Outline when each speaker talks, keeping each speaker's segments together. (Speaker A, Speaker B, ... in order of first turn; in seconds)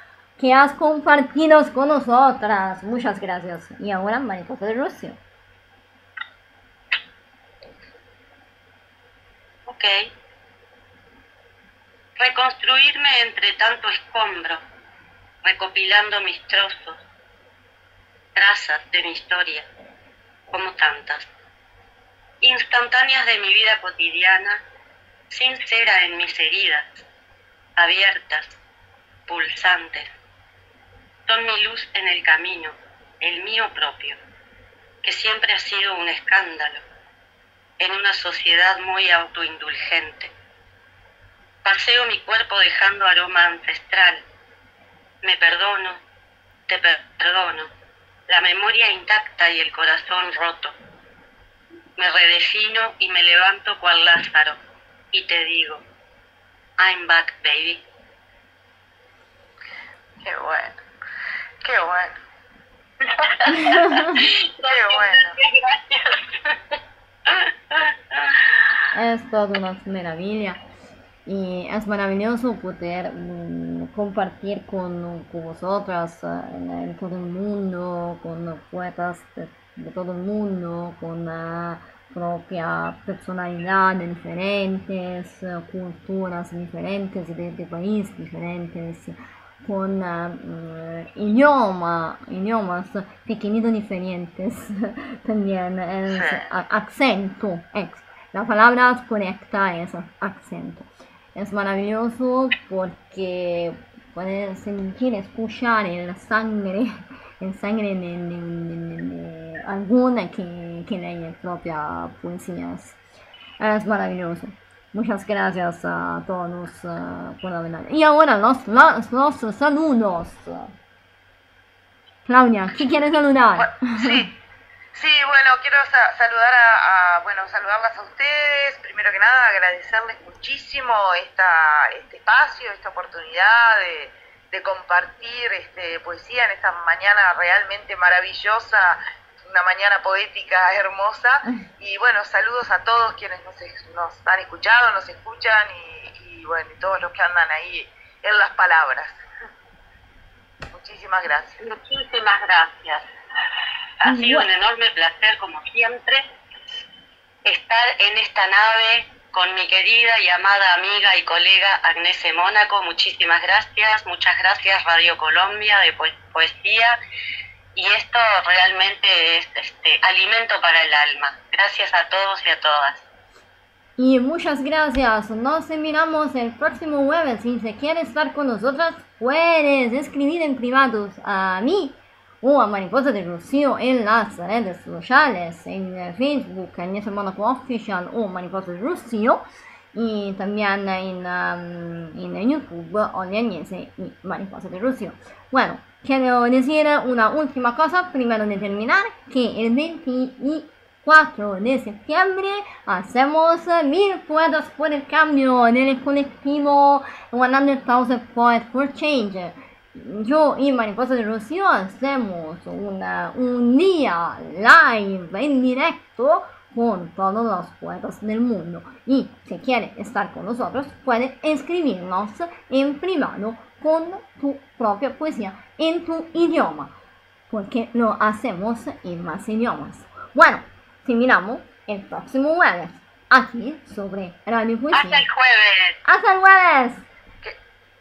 Speaker A: 0.4-5.2, 68.9-70.6, 71.2-113.0, 113.6-120.7, 122.2-124.2, 154.0-154.5, 174.0-189.4, 189.9-226.9, 227.5-235.2, 236.0-237.1
Speaker B: 9.7-10.1, 12.2-14.6, 15.4-17.0, 18.4-19.7, 20.5-21.3, 22.4-24.6, 25.3-27.0, 27.8-28.6, 29.3-30.1, 31.3-34.2, 35.0-36.8, 37.8-40.3, 41.6-44.2, 45.2-46.0, 46.7-47.7, 48.3-50.7, 52.0-54.6, 55.1-55.8, 56.8-57.8, 63.2-68.5, 151.6-153.1, 154.0-156.3, 157.4-166.9, 167.7-173.0, 234.9-236.0
Speaker C: 60.2-60.8, 61.6-62.2, 64.6-65.3, 96.1-96.5, 123.5-124.3, 124.9-149.2, 150.7-151.6